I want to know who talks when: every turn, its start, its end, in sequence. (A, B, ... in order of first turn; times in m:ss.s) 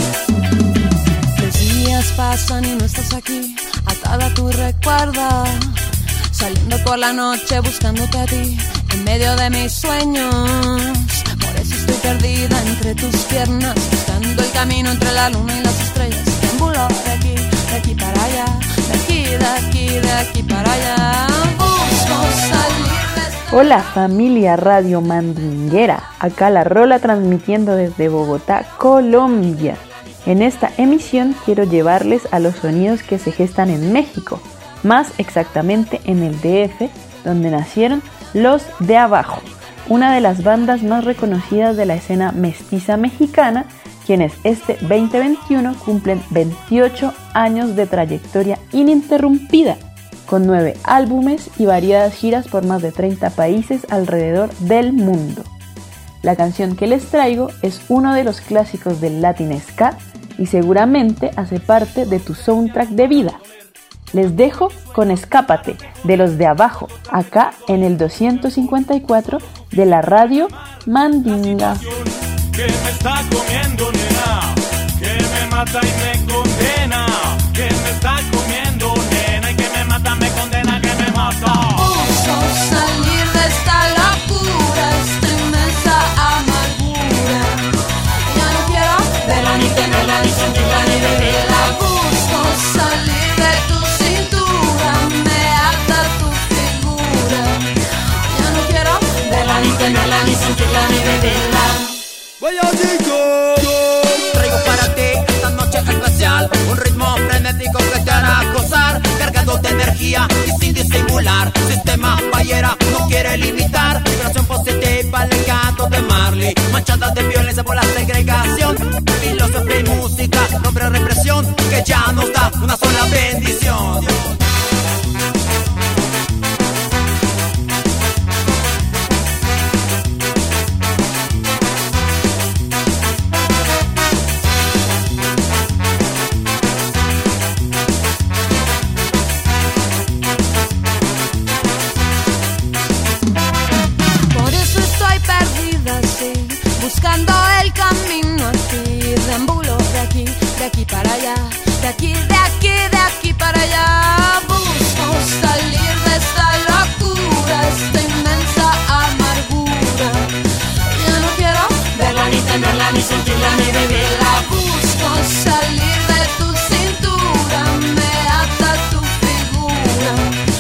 0:01.4-0:05.7 A
0:06.3-0:21.7 A
0:21.6-0:23.5 B
0:23.5-0:55.5 C
0:56.2-1:03.4 C
1:04.1-1:11.9 C
1:11.9-1:21.8 D
1:21.8-1:27.7 B
1:28.3-1:37.7 B
1:38.3-1:42.0 B
1:44.6-2:04.1 E
2:24.3-2:37.0 A
2:34.5-2:40.2 B
2:39.3-2:39.7 A
2:40.9-2:50.3 B
2:41.2-2:41.8 A